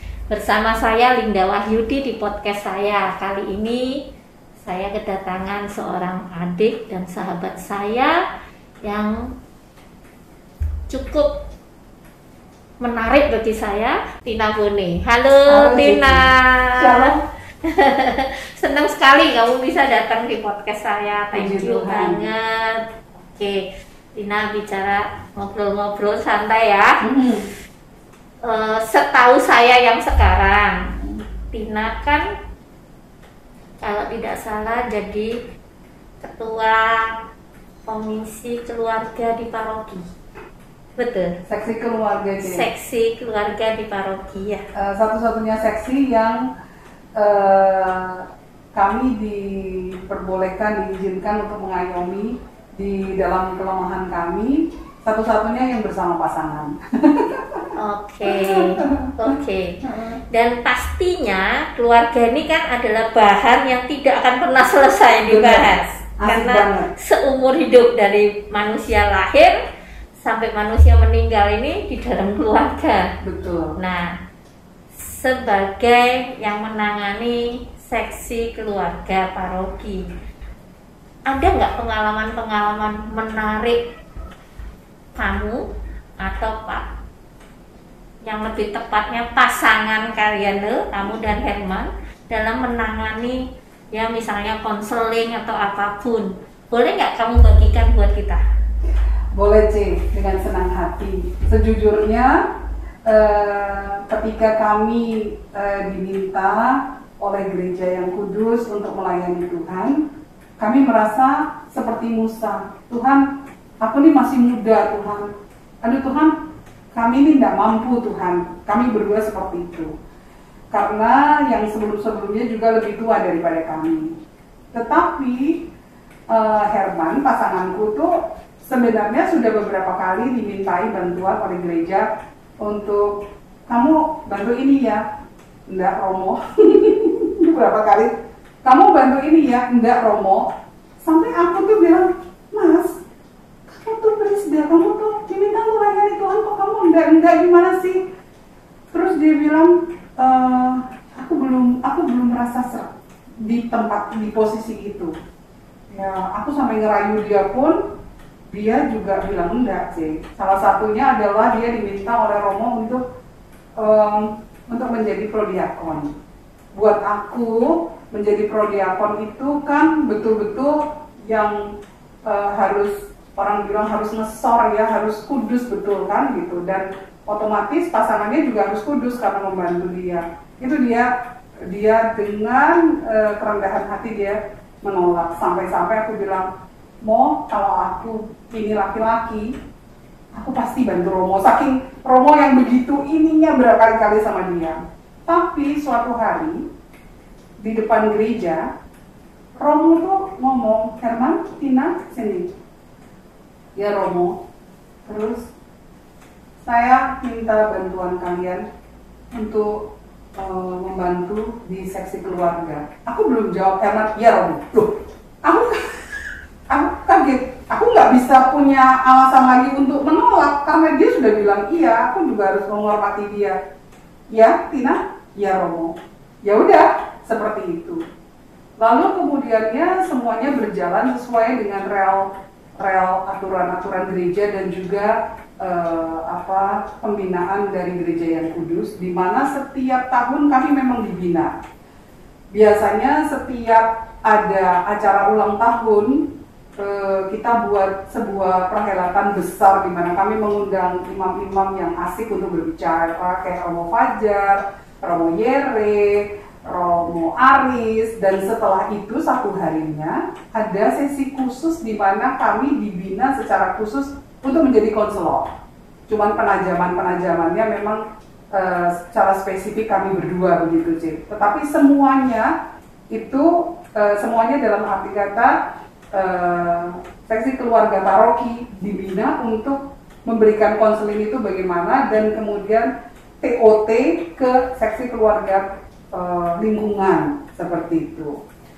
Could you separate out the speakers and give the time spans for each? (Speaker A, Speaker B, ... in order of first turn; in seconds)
Speaker A: 0.3-3.9, 4.6-8.1, 8.8-9.1, 10.9-11.3, 12.8-17.1, 17.7-23.6, 24.2-26.9, 28.4-30.9, 31.5-32.2, 33.8-35.3, 36.2-37.1, 37.9-40.1, 41.0-41.3, 42.4-44.6, 57.8-59.8, 60.3-69.5, 70.2-73.0, 73.8-74.1, 75.0-80.1, 81.3-83.8, 85.2-85.7, 86.2-86.8, 88.2-93.4, 93.9-98.4
Speaker B: 15.5-17.2, 21.3-22.2, 27.0-27.4, 41.5-42.7, 44.8-46.4, 47.2-57.7, 58.2-60.2, 65.2-66.9, 73.2-73.8, 99.3-102.4, 103.1-110.0, 110.6-113.2, 113.8-115.3, 115.8-116.3, 116.9-119.9, 120.7-124.1, 124.7-125.7, 126.3-132.1, 132.6-133.1, 133.7-135.0, 135.7-138.1, 138.7-140.4, 141.0-143.0, 143.7-148.0, 148.9-152.9, 153.4-155.1, 155.9-157.8, 158.5-163.0, 163.8-166.2, 166.8-171.6, 172.3-181.1, 181.7-186.5, 187.1-189.5, 190.4-196.6, 197.6-198.7, 199.6-202.5, 203.8-204.4, 205.1-205.4, 206.6-208.7, 209.3-209.8, 210.4-216.2, 216.7-223.6, 224.3-228.0, 228.8-232.3, 232.8-241.5, 242.5-265.5, 266.1-268.0, 268.5-272.5, 273.1-275.5, 276.1-282.9, 283.4-288.4